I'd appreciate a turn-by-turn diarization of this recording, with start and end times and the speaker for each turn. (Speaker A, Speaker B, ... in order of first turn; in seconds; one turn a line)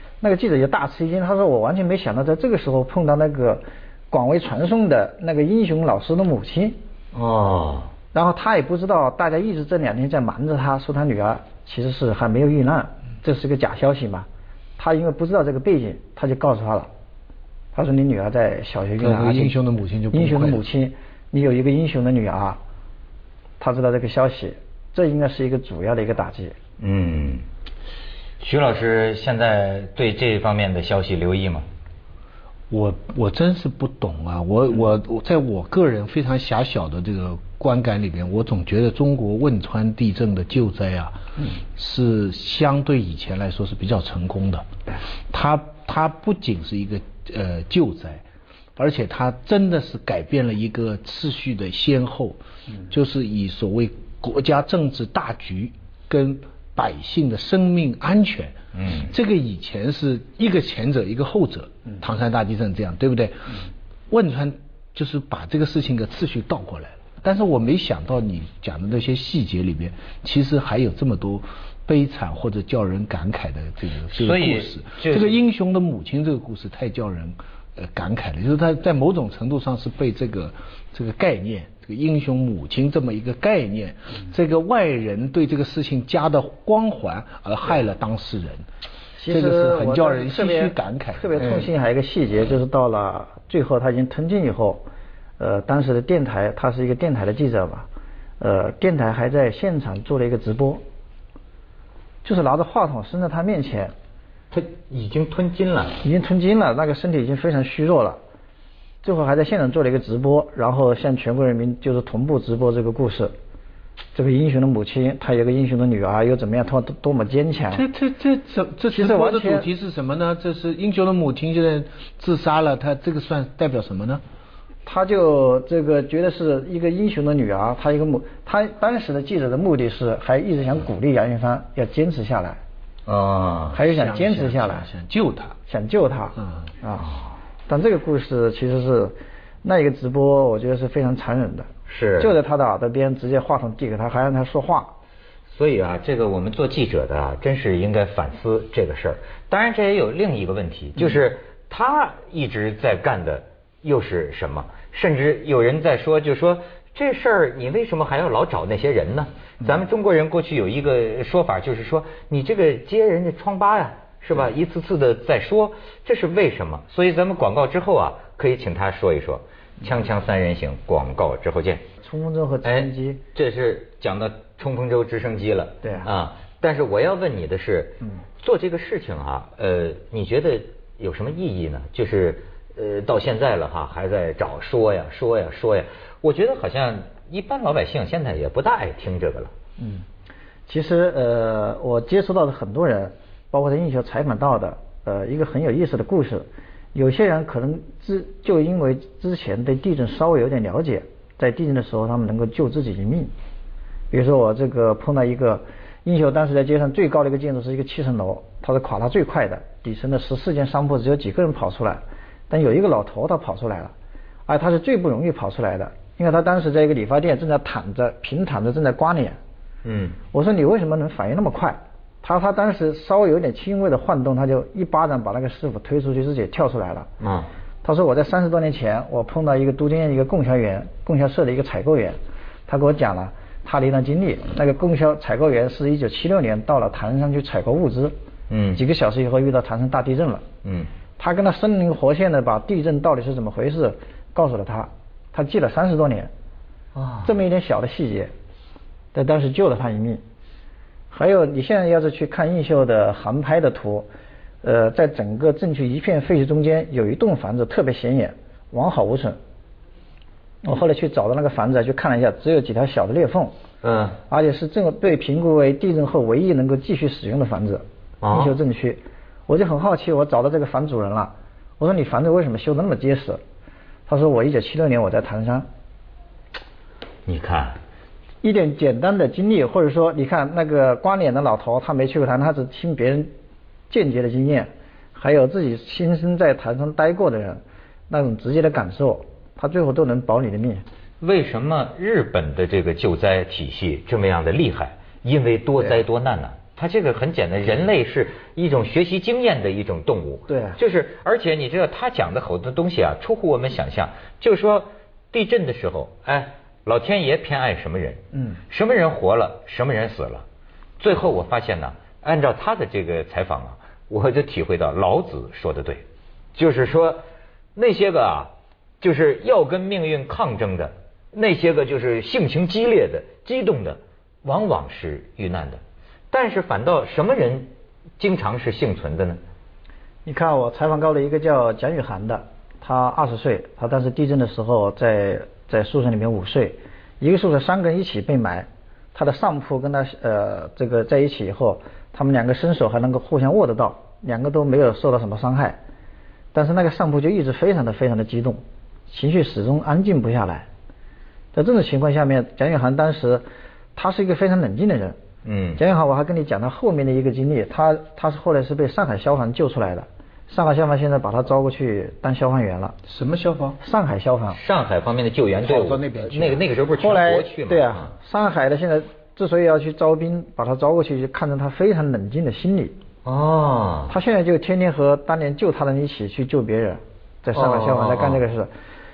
Speaker A: 0.2-6.8
Speaker B: 7.1-7.9
Speaker A: 8.1-14.3
Speaker A: 14.8-16.9
Speaker A: 17.7-19.5
Speaker C: 19.0-20.6
Speaker A: 20.1-22.6
Speaker A: 23.6-26.5
Speaker B: 26.8-27.4
Speaker B: 28.4-31.6
Speaker C: 32.7-44.7
Speaker C: 45.3-48.2
Speaker C: 48.8-88.7
Speaker B: 58.7-59.1
Speaker B: 74.1-75.4
Speaker A: 89.2-94.8
Speaker C: 89.3-91.7
Speaker A: 95.4-97.9
Speaker A: 98.4-100.8
Speaker A: 102.2-103.9
Speaker B: 104.5-106.0
Speaker A: 106.0-108.2
Speaker A: 109.0-113.3
Speaker A: 114.1-117.8
Speaker C: 117.7-124.2
Speaker A: 118.9-119.7
Speaker A: 124.8-132.6
Speaker B: 133.1-133.8
Speaker A: 133.7-134.9
Speaker C: 133.7-135.6
Speaker A: 135.7-141.7
Speaker B: 141.9-142.3
Speaker A: 142.2-144.9
Speaker B: 145.5-171.8
Speaker A: 172.0-173.2
Speaker B: 172.6-189.5
Speaker A: 189.8-190.0
Speaker A: 190.7-203.3
Speaker A: 204.1-213.9
Speaker A: 214.5-219.4
Speaker B: 219.8-220.2
Speaker A: 220.3-227.1
Speaker B: 227.2-227.5
Speaker A: 227.8-232.2
Speaker A: 232.7-238.1
Speaker B: 238.5-238.8
Speaker A: 238.7-240.4
Speaker B: 240.6-240.9
Speaker A: 241.2-246.3
Speaker B: 246.9-247.3
Speaker A: 247.2-248.3
Speaker A: 249.1-250.2
Speaker A: 251.1-254.1
Speaker A: 254.6-259.4
Speaker A: 260.6-263.5
Speaker B: 263.8-264.2
Speaker A: 264.3-273.4
Speaker B: 268.2-268.6
Speaker A: 274.1-275.6
Speaker B: 277.2-277.8
Speaker A: 278.4-283.3
Speaker A: 283.9-290.8
Speaker B: 291.2-310.4
Speaker A: 300.5-300.8
Speaker B: 311.0-316.0
Speaker B: 316.5-317.2
Speaker B: 317.7-329.4
Speaker A: 330.2-345.8
Speaker A: 346.5-350.7
Speaker A: 351.5-353.4
Speaker A: 353.9-355.2
Speaker B: 355.4-355.8
Speaker A: 355.8-362.9
Speaker C: 363.1-363.8
Speaker A: 363.8-364.6
Speaker B: 364.5-368.1
Speaker C: 365.6-366.7
Speaker A: 366.9-372.9
Speaker B: 373.2-374.1
Speaker A: 374.1-378.7
Speaker B: 377.5-378.4